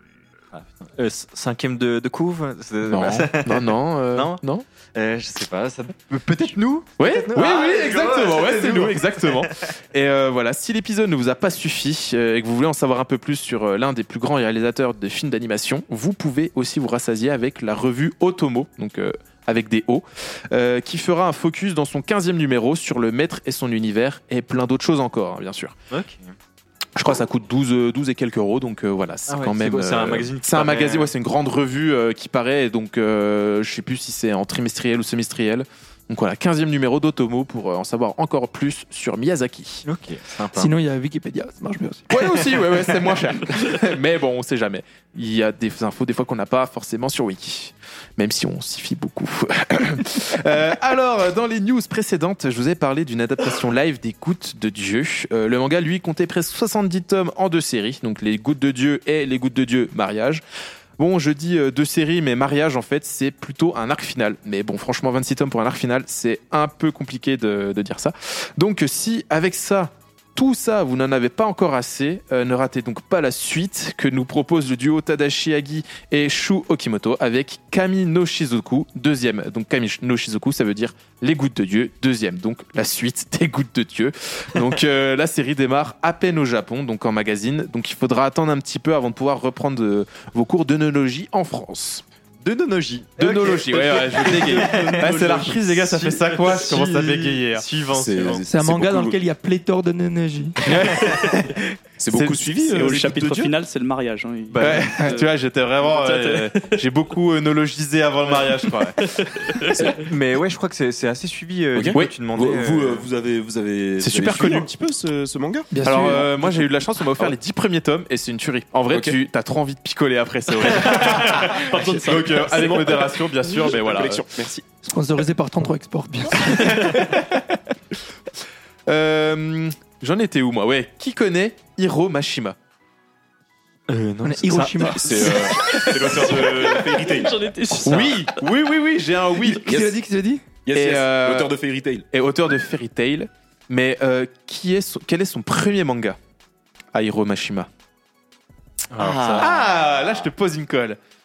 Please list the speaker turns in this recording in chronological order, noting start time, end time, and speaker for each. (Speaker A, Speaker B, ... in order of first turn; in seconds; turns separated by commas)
Speaker A: 0.5-4.4, Speaker B: 2.9-4.6, Speaker A: 5.0-9.5, Speaker B: 7.0-25.8, Speaker A: 25.9-26.3, Speaker B: 27.0-39.9, Speaker A: 29.3-31.1, Speaker A: 39.9-40.7, Speaker C: 40.5-42.2, Speaker B: 42.1-60.4, Speaker B: 61.0-92.0, Speaker A: 92.4-98.4, Speaker B: 93.2-97.6, Speaker D: 94.1-95.5, Speaker E: 97.9-99.2, Speaker C: 98.5-100.6, Speaker B: 100.7-101.6, Speaker E: 102.0-103.2, Speaker B: 102.1-103.5, Speaker D: 102.7-105.3, Speaker A: 104.5-105.0, Speaker B: 104.6-109.1, Speaker D: 105.8-106.8, Speaker D: 108.8-109.9, Speaker A: 109.9-113.1, Speaker E: 111.8-115.7, Speaker B: 114.0-114.7, Speaker C: 115.7-116.5, Speaker B: 115.8-124.3, Speaker E: 118.9-119.2, Speaker E: 120.8-124.6, Speaker D: 121.7-122.8, Speaker C: 124.8-127.0, Speaker B: 126.6-127.2, Speaker B: 128.9-132.6, Speaker A: 133.9-135.4, Speaker C: 134.2-135.4, Speaker E: 135.0-137.4, Speaker D: 136.2-138.4, Speaker B: 137.8-139.7, Speaker C: 139.4-140.4, Speaker E: 139.7-139.9, Speaker E: 140.7-142.1, Speaker B: 140.7-141.5, Speaker B: 142.1-146.2, Speaker B: 146.9-147.7, Speaker A: 148.9-149.5, Speaker E: 149.0-149.5, Speaker B: 149.3-151.0